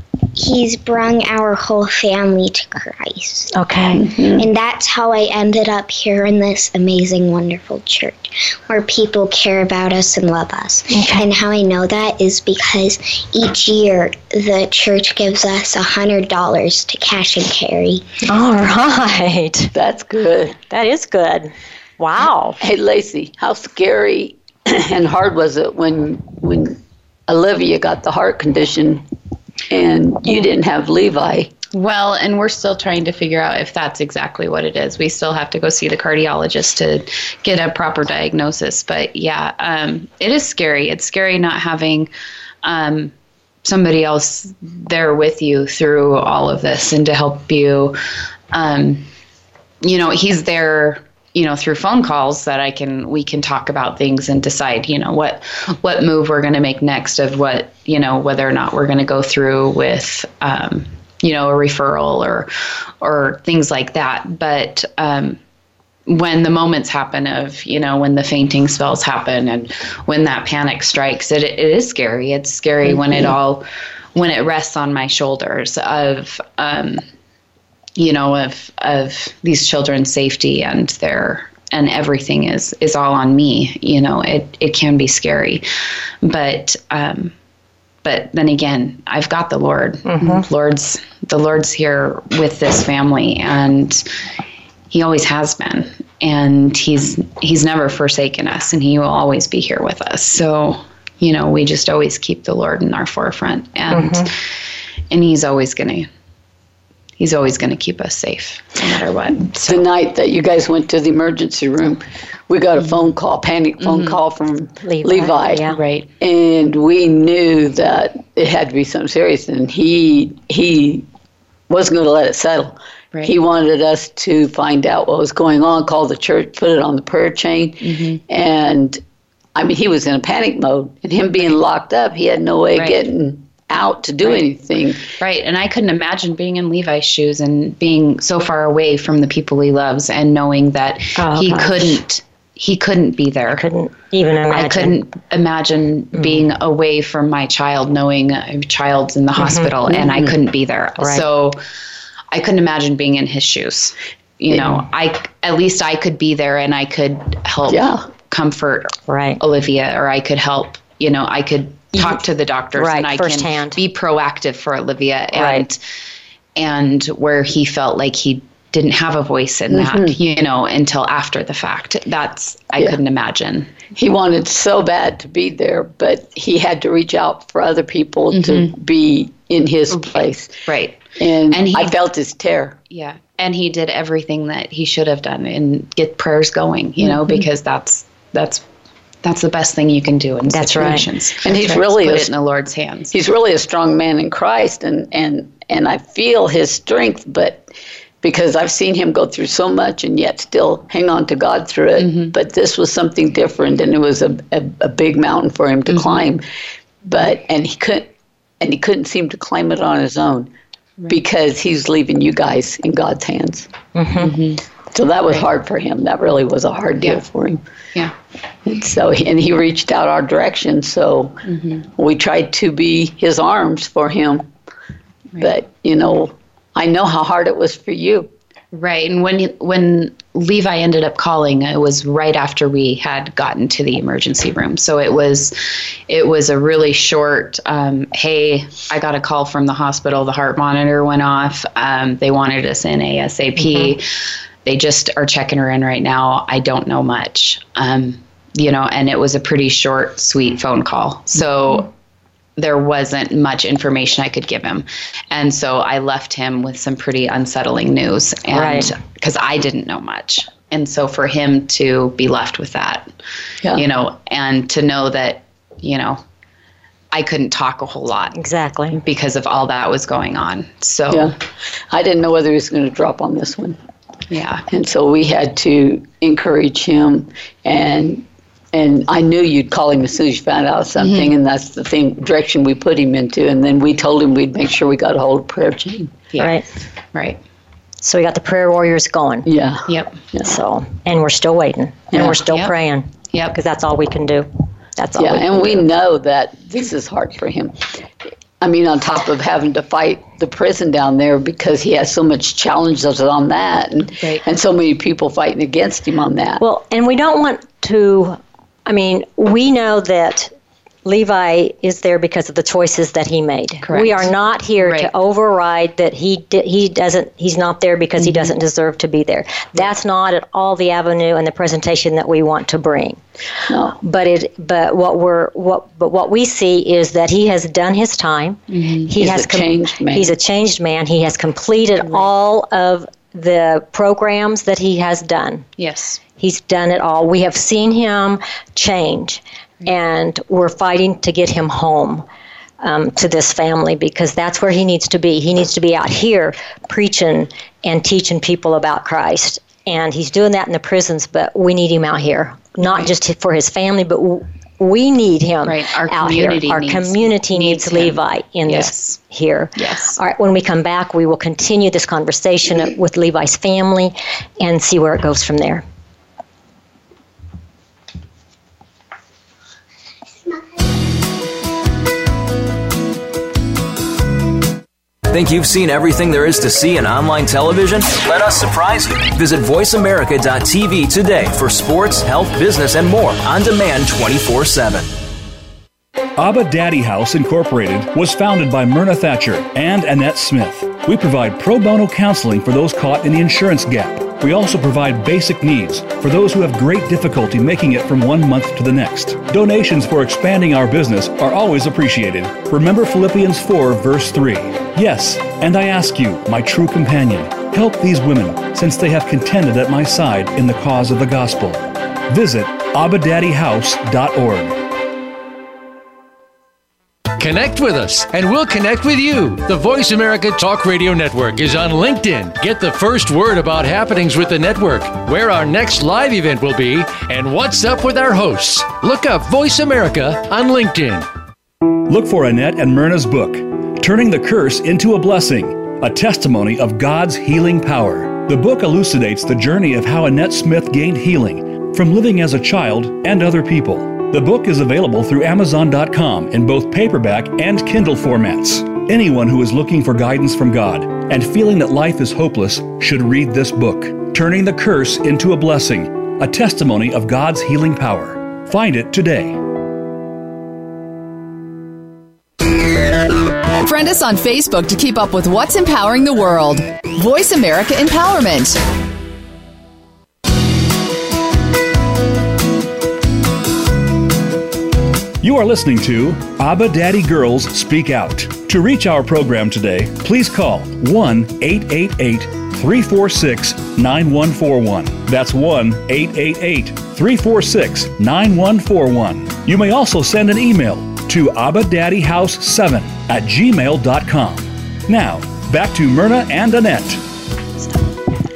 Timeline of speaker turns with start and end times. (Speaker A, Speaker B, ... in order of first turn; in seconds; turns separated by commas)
Speaker A: 0.3-3.5, Speaker B: 3.5-4.0, Speaker C: 4.0-4.4, Speaker A: 4.3-18.0, Speaker B: 10.9-11.2, Speaker B: 18.2-19.7, Speaker C: 19.7-20.5, Speaker B: 20.6-22.6, Speaker C: 22.6-29.0, Speaker C: 29.7-31.5, Speaker D: 31.7-42.1, Speaker D: 42.6-48.0, Speaker D: 48.5-49.1, Speaker D: 49.8-62.5, Speaker D: 63.0-65.4, Speaker D: 66.1-77.0, Speaker D: 78.0-85.7, Speaker D: 86.2-87.3, Speaker D: 88.0-94.0, Speaker B: 90.0-90.5, Speaker D: 94.9-104.4, Speaker B: 103.9-104.3, Speaker D: 105.1-106.1, Speaker D: 107.2-109.8, Speaker C: 109.6-115.7, Speaker D: 112.8-113.0, Speaker D: 113.8-114.2, Speaker B: 114.8-115.8, Speaker D: 115.7-116.1, Speaker C: 116.2-121.0, Speaker C: 121.7-129.0, Speaker D: 127.8-128.2, Speaker C: 129.5-135.1, Speaker D: 132.8-133.0, Speaker D: 135.2-143.6, Speaker B: 141.2-142.0, Speaker B: 143.6-144.9, Speaker D: 144.5-151.6, Speaker B: 146.1-146.4, Speaker B: 149.4-149.7, Speaker C: 149.8-150.3, Speaker B: 151.0-151.2, Speaker D: 152.3-165.8, Speaker C: 157.7-158.1, Speaker B: 159.1-159.4, Speaker B: 161.9-162.2, Speaker B: 162.8-163.8, Speaker B: 165.3-165.6, Speaker D: 166.6-173.9, Speaker C: 169.7-170.2, Speaker C: 173.9-180.6, Speaker D: 178.3-178.7, Speaker D: 179.9-182.0, Speaker C: 181.2-182.8, Speaker D: 182.9-188.6, Speaker D: 189.2-193.1, Speaker B: 190.5-191.1, Speaker C: 191.4-192.3, Speaker C: 193.1-197.7, Speaker C: 198.2-206.4, Speaker D: 202.0-202.3, Speaker D: 205.9-206.2, Speaker C: 207.1-210.5, Speaker C: 211.1-213.7, Speaker B: 213.9-214.3, Speaker D: 214.2-214.6, Speaker C: 214.9-217.6, Speaker C: 218.7-221.4, Speaker D: 221.5-221.8, Speaker C: 222.0-224.5, Speaker C: 225.4-228.3, Speaker D: 228.7-244.1, Speaker B: 243.6-243.9, Speaker D: 244.6-251.9, Speaker D: 252.6-263.1, Speaker B: 258.5-258.9, Speaker D: 263.7-266.2, Speaker D: 267.1-268.4, Speaker B: 268.3-269.0, Speaker D: 268.9-271.3, Speaker C: 271.1-271.4, Speaker C: 271.9-273.8, Speaker D: 274.3-274.6, Speaker C: 274.7-286.1, Speaker D: 281.0-281.3, Speaker B: 286.4-286.6, Speaker D: 287.1-287.4, Speaker B: 288.0-289.4, Speaker C: 289.4-290.5, Speaker D: 289.9-290.1, Speaker B: 290.4-295.8, Speaker C: 292.1-292.4, Speaker D: 292.4-292.7, Speaker C: 295.2-297.9, Speaker C: 298.6-306.6, Speaker B: 306.6-310.5, Speaker B: 311.0-323.2, Speaker D: 313.8-315.1, Speaker D: 318.2-318.5, Speaker C: 323.7-324.0, Speaker B: 324.0-335.7, Speaker D: 328.7-329.1, Speaker C: 329.2-330.3, Speaker D: 335.8-336.2, Speaker B: 336.4-342.2, Speaker B: 342.8-365.8, Speaker D: 352.8-353.1, Speaker D: 355.6-359.2, Speaker D: 359.8-360.2, Speaker E: 375.3-385.1, Speaker F: 386.4-414.8, Speaker G: 417.4-431.3, Speaker F: 432.1-459.6, Speaker H: 463.8-468.8, Speaker F: 475.4-497.2